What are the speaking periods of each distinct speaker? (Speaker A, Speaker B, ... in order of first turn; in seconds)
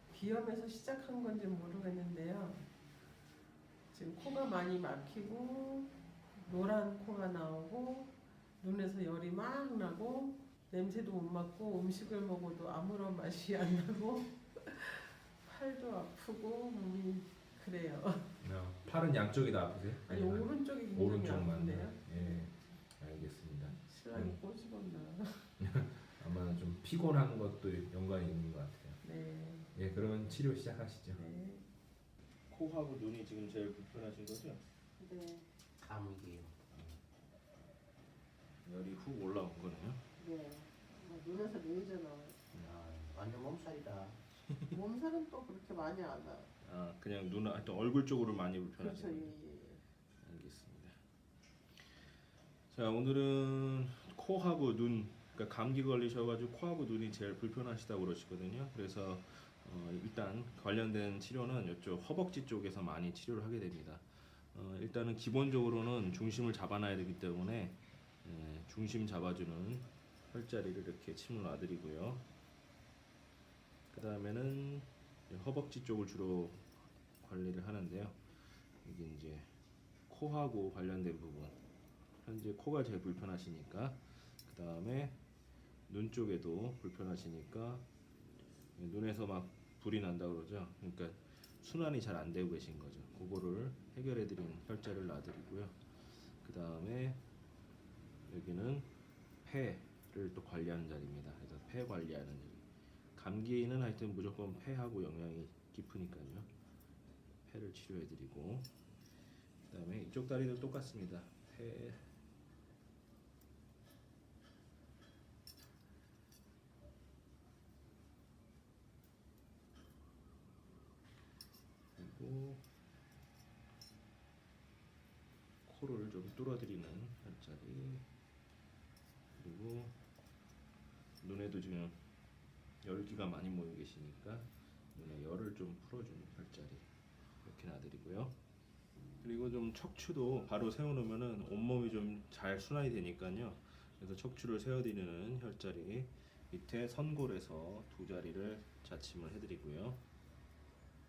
Speaker A: 0.1-2.7, 3.9-18.3, 20.0-22.5, 23.7-25.5, 29.0-29.7, 31.1-31.6, 35.0-35.5, 40.2-42.4, 44.7-46.5, 48.8-49.8
Speaker B: 18.4-24.4, 25.6-29.0, 29.7-31.2, 32.5-34.6, 38.6-40.0, 42.5-42.8, 46.6-49.3, 50.2-51.0, 52.7-72.2, 73.9-76.7, 77.2-78.2, 78.8-79.5, 80.1-81.6, 82.2-85.2, 85.9-87.9, 88.8-95.8, 96.4-97.2, 98.3-98.9, 99.4-106.5, 107.5-108.7, 109.7-112.0, 122.0-122.6, 125.7-128.1, 129.3-130.0, 131.2-132.0, 132.8-136.9, 137.4-138.3, 139.2-150.0
Speaker C: 35.8-36.6, 42.6-44.2